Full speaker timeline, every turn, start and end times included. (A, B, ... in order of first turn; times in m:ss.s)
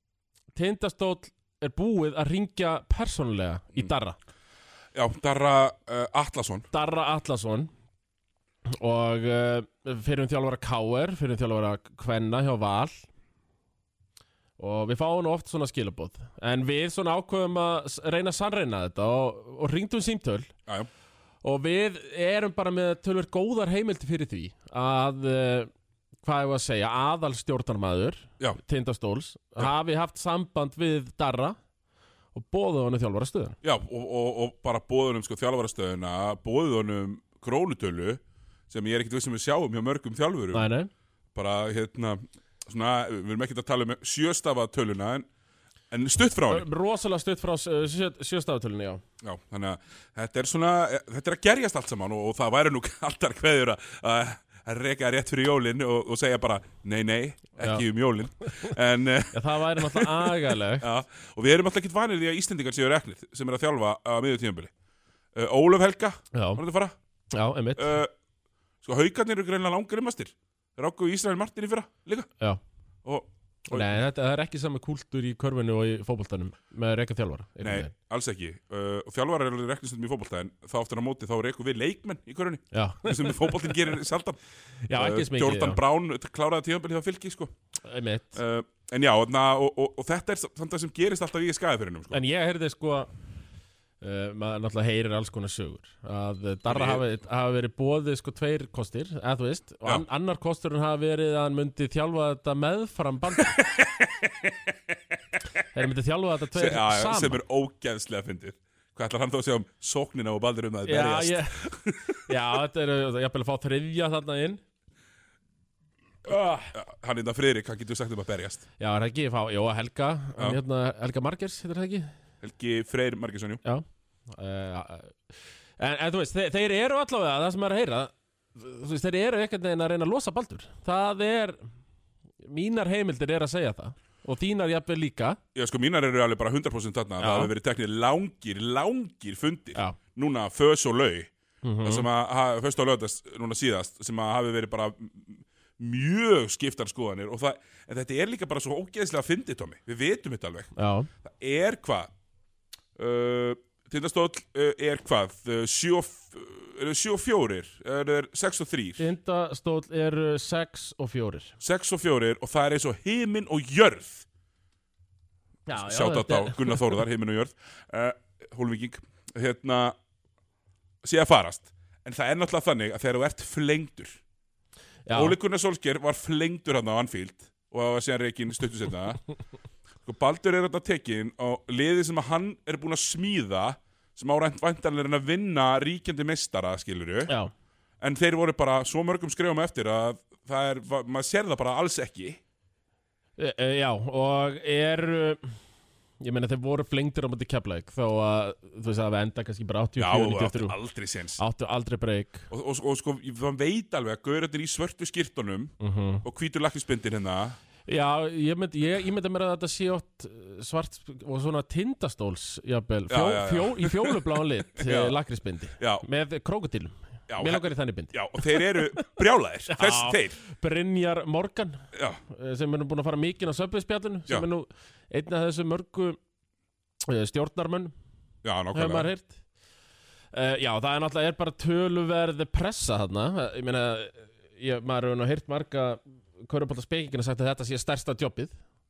0:00.5-0:04.2 A
0:04.9-0:06.7 B
0:06.7-0:07.7 A
0:08.7-0:13.1 A
0:14.6-0:20.5 A
0:21.4-0:25.7 A
0:26.2-0:31.6 A
0:32.3-0:33.6 A
0:33.6-0:40.7 B
0:40.5-0:40.9 A
0:41.4-0:45.3 B
0:45.9-0:46.6 B
0:46.5-0:49.0 A
0:49.2-1:04.7 B
0:59.3-1:00.9 A
1:05.4-1:07.0 B
1:06.3-1:06.6 A
1:07.3-1:08.0 A
1:07.8-1:08.1 B
1:08.8-1:12.3 B
1:13.0-1:13.9 B
1:13.7-1:17.9 A
1:17.6-1:24.4 B
1:22.7-1:23.9 A
1:24.9-1:25.8 A
1:25.0-1:27.5 B
1:27.8-1:28.4 A
1:28.4-1:32.2 B
1:32.1-1:33.1 A
1:34.0-1:43.6 A
1:36.7-1:37.0 B
1:43.6-1:45.0 B
1:45.7-1:47.4 A
1:46.5-1:52.3 B
1:50.8-1:51.7 A
1:52.2-1:54.6 A
1:56.2-1:56.7 A
1:56.7-1:58.6 B
1:58.8-2:02.1 A
2:02.4-2:03.6 B
2:03.6-2:11.6 A
2:12.4-2:15.4 A
2:15.5-2:21.3 B
2:17.2-2:17.5 A
2:21.6-2:22.1 A
2:21.8-2:30.7 B
2:30.8-2:31.1 A
2:31.2-2:32.1 B
2:33.0-2:39.1 B
2:39.0-2:41.5 A
2:41.6-2:44.2 B
2:45.7-2:47.0 A
2:45.7-2:50.0 B
2:51.0-2:54.2 B
2:55.0-2:55.4 A
2:55.1-2:59.2 B
3:00.0-3:07.3 B
3:07.3-3:07.5 A
3:08.0-3:12.4 B
3:13.4-3:15.5 A
3:16.2-3:20.8 A
3:20.0-3:21.4 B
3:21.4-3:22.5 A
3:22.5-3:27.6 B
3:25.8-3:26.2 A
3:27.9-3:39.0 A
3:33.1-3:34.2 B
3:34.8-3:35.2 B
3:35.8-3:36.0 B
3:37.3-3:40.4 B
3:39.7-3:46.2 A
3:41.9-3:42.2 B
3:47.1-3:47.9 A
3:48.4-3:49.1 B
3:48.7-3:49.4 A
3:50.3-3:58.6 A